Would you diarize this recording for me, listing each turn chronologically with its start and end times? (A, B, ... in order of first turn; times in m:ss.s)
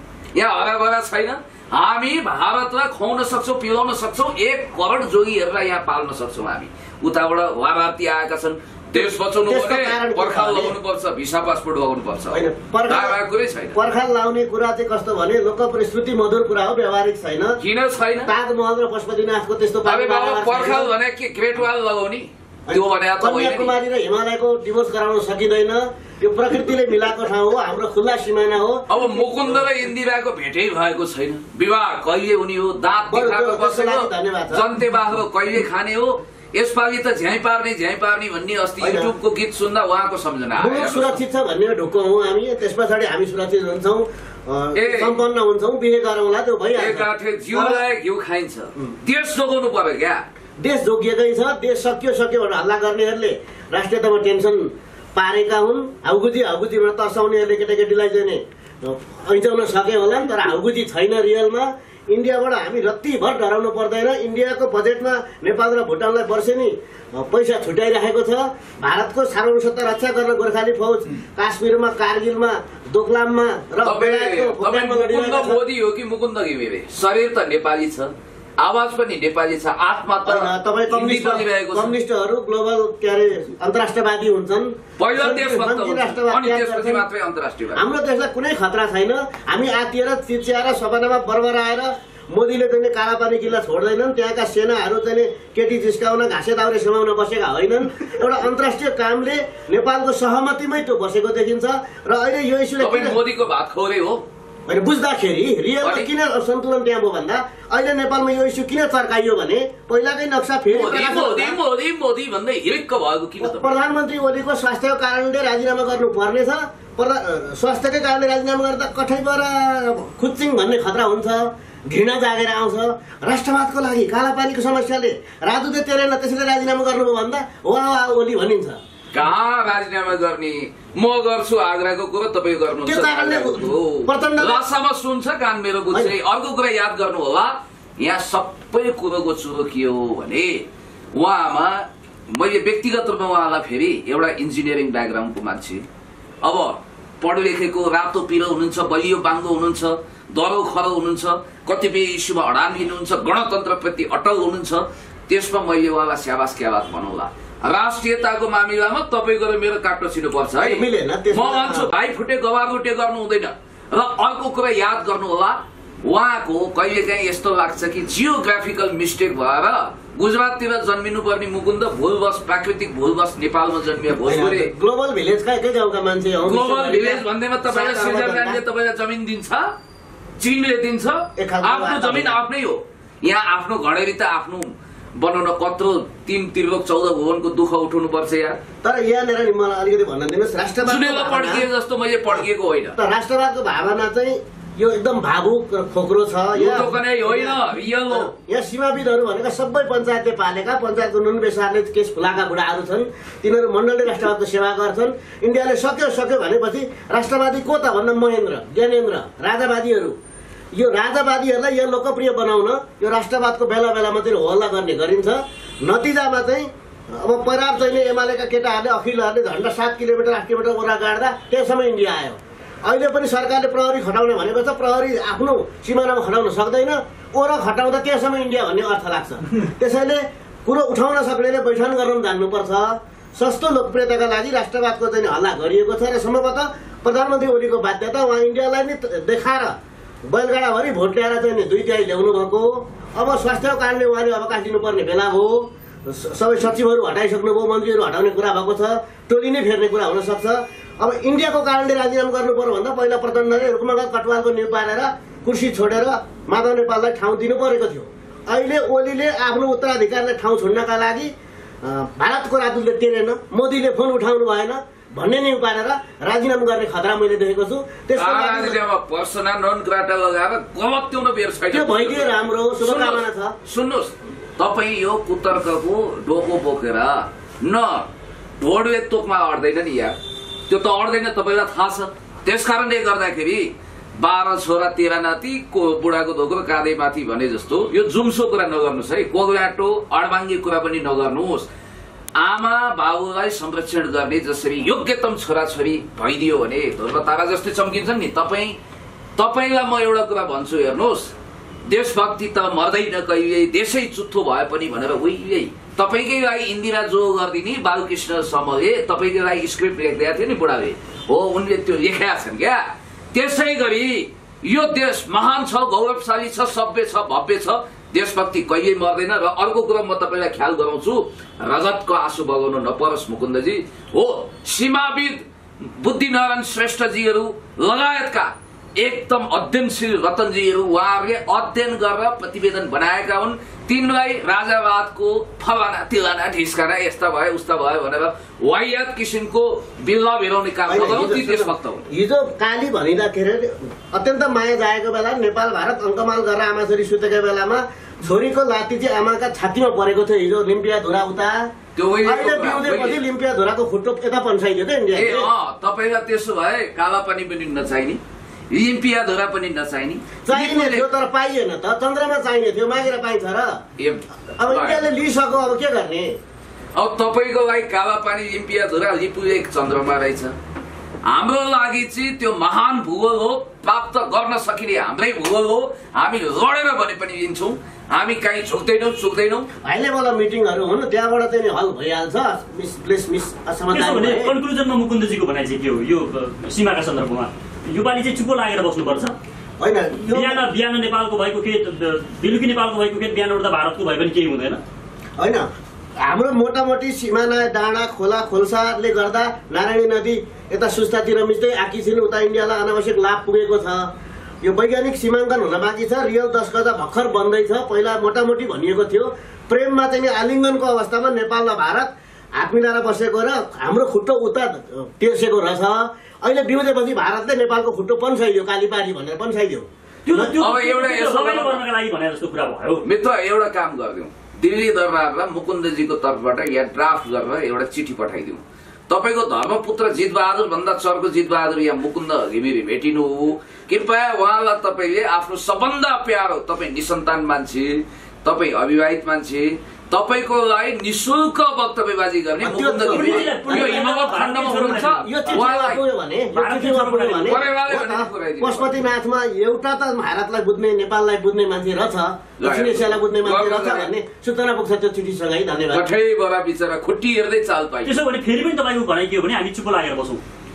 0:00.3-0:13.8 A
0:08.9-0:10.8 B
0:12.3-0:13.2 B
0:13.7-0:17.6 B
0:17.6-0:18.3 A
0:18.2-0:20.9 B
0:19.8-0:23.7 A
0:22.7-0:29.6 B
0:28.9-0:41.2 A
0:33.1-0:34.6 B
0:38.8-0:39.1 B
0:40.6-0:47.8 B
0:44.7-0:45.1 A
0:46.8-0:50.2 A
0:50.6-1:15.6 B
1:13.8-1:21.9 A
1:20.2-1:27.0 B
1:25.0-1:27.8 A
1:27.7-1:43.2 B
1:42.8-1:44.2 A
1:44.7-1:51.6 B
1:45.8-1:46.1 A
1:50.7-1:53.7 A
1:53.4-2:08.8 B
2:09.1-2:20.6 A
2:12.8-2:14.6 B
2:21.1-2:25.8 A
2:26.4-2:54.7 A
2:40.6-2:41.9 B
2:54.2-2:58.6 B
2:56.4-2:59.7 A
3:00.4-3:08.6 A
3:01.4-3:02.4 B
3:08.8-3:11.6 B
3:10.8-3:13.0 A
3:12.9-3:30.2 B
3:16.5-3:18.3 A
3:30.7-4:21.3 B
4:21.8-4:28.8 B
4:28.2-4:38.1 A
4:31.7-4:33.5 B
4:38.6-4:40.2 A
4:40.7-4:51.7 A
4:52.4-4:58.8 A
4:59.4-5:01.3 A
5:01.8-5:42.0 A
5:40.9-5:55.5 B
5:52.0-5:53.2 A
5:55.1-6:01.1 A
6:00.4-6:03.8 B
6:04.0-6:05.0 A
6:04.6-6:06.4 B
6:07.0-6:10.5 A
6:11.3-6:19.7 A
6:19.8-6:24.5 B
6:23.9-6:29.4 C
6:29.8-6:30.6 B
6:30.3-6:34.8 C
6:35.4-6:35.7 B
6:36.2-6:44.1 B
6:44.6-7:00.5 B
7:00.2-7:03.0 C
7:00.6-7:01.8 A
7:03.0-7:26.0 A
7:22.6-7:24.1 B
7:23.0-7:25.3 C
7:25.2-7:36.1 B
7:26.5-7:27.6 C
7:27.4-7:28.9 A
7:32.6-7:34.1 A
7:35.9-7:38.2 A
7:38.0-7:40.4 C